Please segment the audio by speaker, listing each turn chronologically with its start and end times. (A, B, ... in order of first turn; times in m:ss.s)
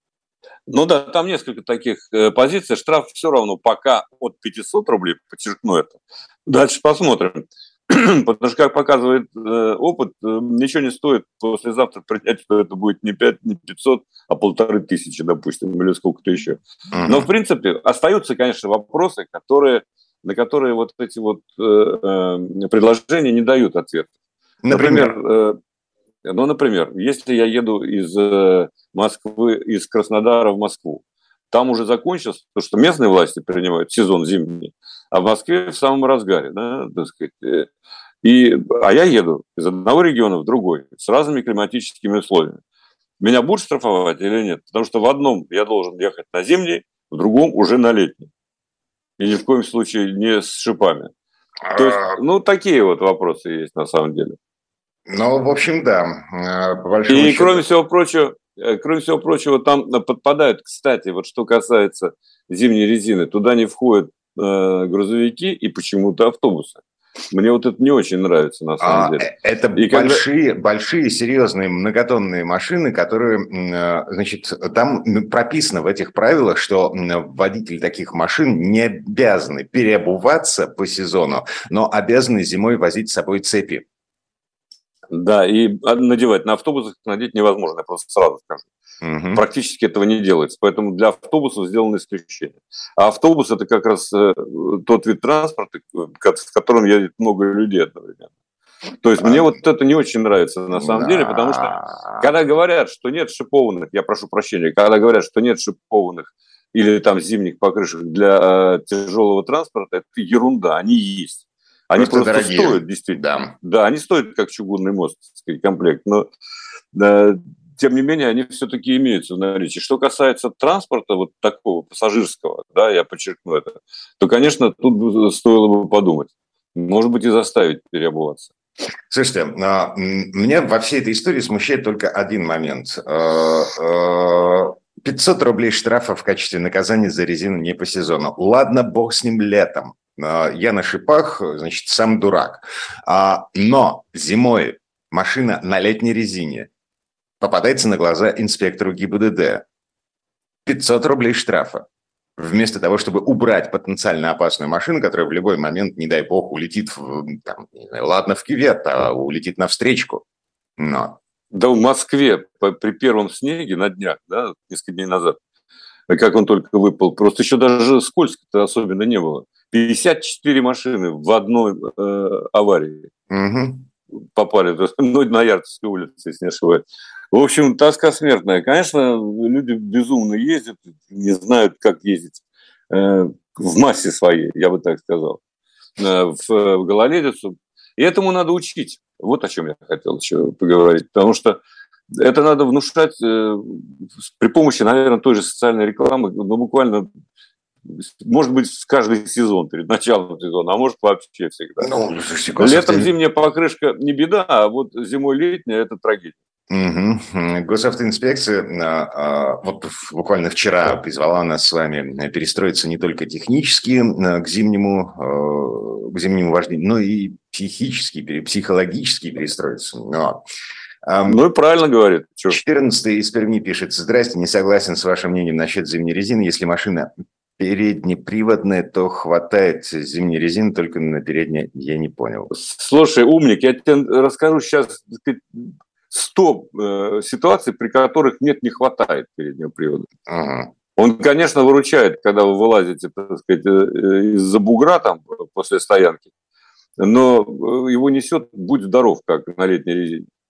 0:00.7-0:24.1 A
0:16.9-0:17.3 B
0:24.6-0:25.2 B
0:24.7-0:25.6 A
0:26.2-0:37.7 A
0:38.2-0:42.6 A
0:43.2-0:48.3 A
0:49.2-0:51.1 A
0:51.7-0:52.2 B
0:51.7-0:54.4 A
0:55.1-0:57.6 B
0:57.1-1:06.8 A
1:07.3-1:10.2 A
1:08.8-1:23.8 B
1:25.1-1:28.7 A
1:29.0-1:29.4 B
1:29.4-1:38.3 A
1:39.0-1:56.3 A
1:39.2-1:39.4 B
1:40.8-1:42.3 B
1:52.0-1:53.6 B
1:56.9-2:08.5 A
2:09.1-2:26.7 B
2:27.4-2:29.6 B
2:30.7-2:31.9 B
2:32.4-2:40.2 B
2:40.8-2:41.2 B
2:41.5-2:45.4 A
2:46.1-2:53.1 A
2:53.3-2:53.9 B
2:54.2-3:05.4 A
3:06.0-3:11.6 A
3:12.1-3:17.1 A
3:17.8-3:21.9 A
3:21.8-3:23.1 B
3:22.6-3:26.4 A
3:26.7-3:40.4 B
3:41.1-3:41.4 B
3:41.3-3:42.6 A
3:42.5-3:52.5 B
3:52.5-4:00.1 A
4:00.3-4:00.7 B
4:01.0-4:06.3 A
4:07.0-4:10.3 A